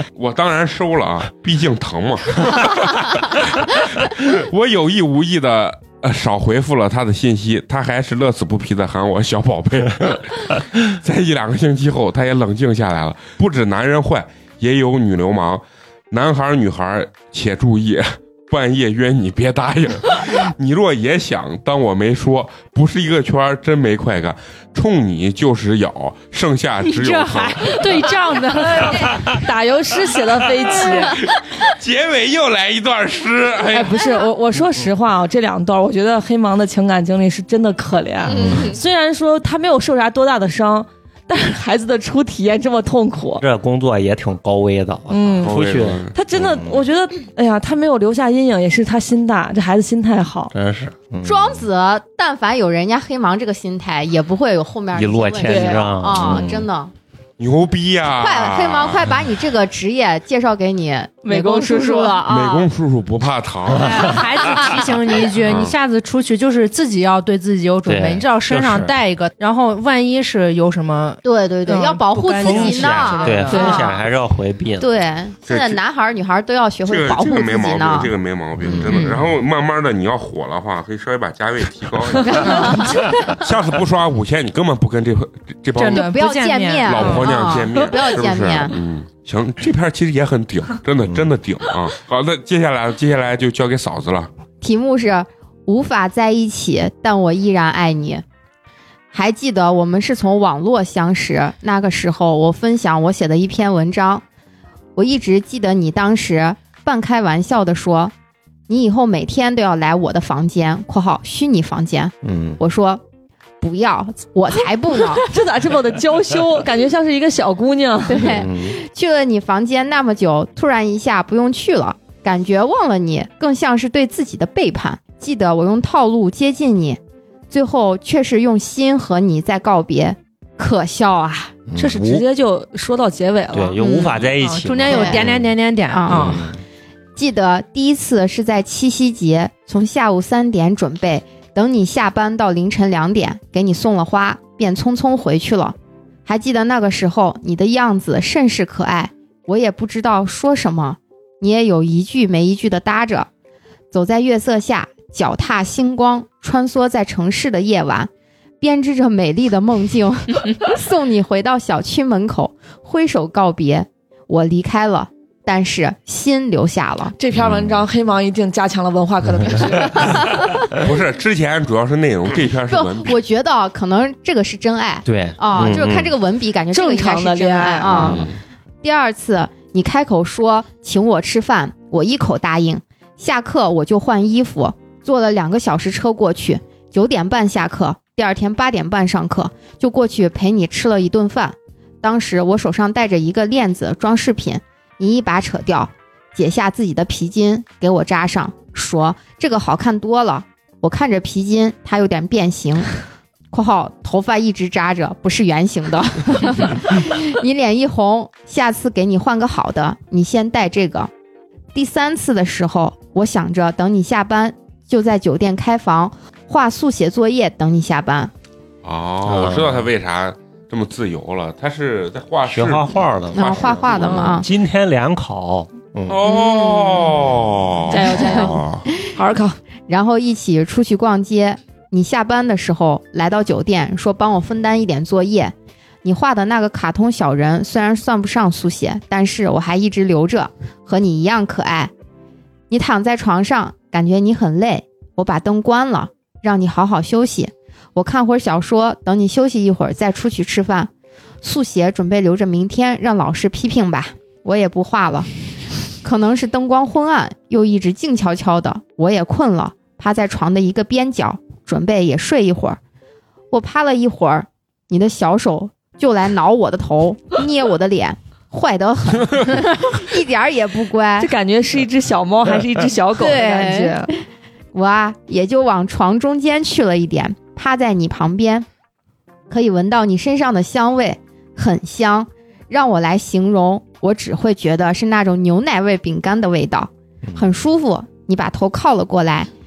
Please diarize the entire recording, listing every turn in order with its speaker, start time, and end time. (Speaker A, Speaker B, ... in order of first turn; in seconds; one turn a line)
Speaker A: 0.1-28.1
Speaker B: 26.9-29.1
Speaker C: 27.8-31.3
Speaker A: 31.2-34.2
Speaker C: 33.7-43.4
Speaker D: 38.3-38.8
Speaker E: 38.4-38.7
Speaker E: 43.4-46.8
Speaker C: 45.1-45.6
Speaker A: 45.4-46.2
Speaker C: 46.1-50.5
Speaker E: 50.5-51.6
Speaker D: 51.2-56.9
Speaker E: 54.9-56.7
Speaker C: 55.5-55.9
Speaker A: 57.4-59.0
Speaker D: 58.1-62.7
Speaker C: 61.2-62.2
Speaker A: 62.3-64.8
Speaker B: 63.8-73.9
Speaker E: 63.8-64.2
Speaker D: 64.5-64.8
Speaker A: 65.4-65.7
Speaker E: 67.9-69.0
Speaker D: 71.2-74.0
Speaker E: 72.4-74.9
Speaker D: 74.8-78.1
Speaker A: 75.5-75.8
Speaker A: 76.9-86.1
Speaker E: 78.6-78.9
Speaker D: 82.3-83.1
Speaker B: 85.8-87.3
Speaker D: 86.0-88.8
Speaker A: 86.9-94.3
Speaker D: 94.6-98.2
Speaker D: 99.1-104.2
Speaker D: 105.0-108.1
Speaker D: 108.7-113.0
Speaker E: 112.2-112.6
Speaker D: 113.6-115.2
Speaker C: 115.0-118.3
Speaker D: 118.1-127.0
Speaker E: 118.2-118.8
Speaker D: 127.5-131.6
Speaker E: 131.7-132.2
Speaker C: 131.8-134.1
Speaker E: 133.5-135.5
Speaker B: 134.4-136.5
Speaker D: 134.9-135.2
Speaker D: 135.9-136.3
Speaker E: 136.1-136.6
Speaker D: 137.2-153.3
Speaker D: 153.9-158.1
Speaker D: 158.6-167.1
Speaker C: 167.2-170.4
Speaker E: 167.3-167.8
Speaker A: 170.8-173.2
Speaker D: 172.7-178.2
Speaker E: 175.1-176.1
Speaker C: 176.7-178.1
Speaker A: 177.9-178.4
Speaker D: 178.8-202.9
Speaker D: 203.5-211.1
Speaker D: 211.7-218.3
Speaker A: 218.8-224.3
Speaker E: 219.2-219.9
Speaker E: 222.5-226.2
Speaker D: 223.3-224.5
Speaker A: 226.1-228.8
Speaker D: 226.3-227.1
Speaker C: 227.9-229.6
Speaker D: 227.9-229.1
Speaker D: 229.9-241.9
Speaker D: 242.7-250.9
Speaker D: 251.4-255.3
Speaker D: 256.0-262.8
Speaker D: 263.5-271.3
Speaker C: 271.2-274.1
Speaker D: 273.2-274.2
Speaker D: 274.7-278.7
Speaker D: 279.5-289.5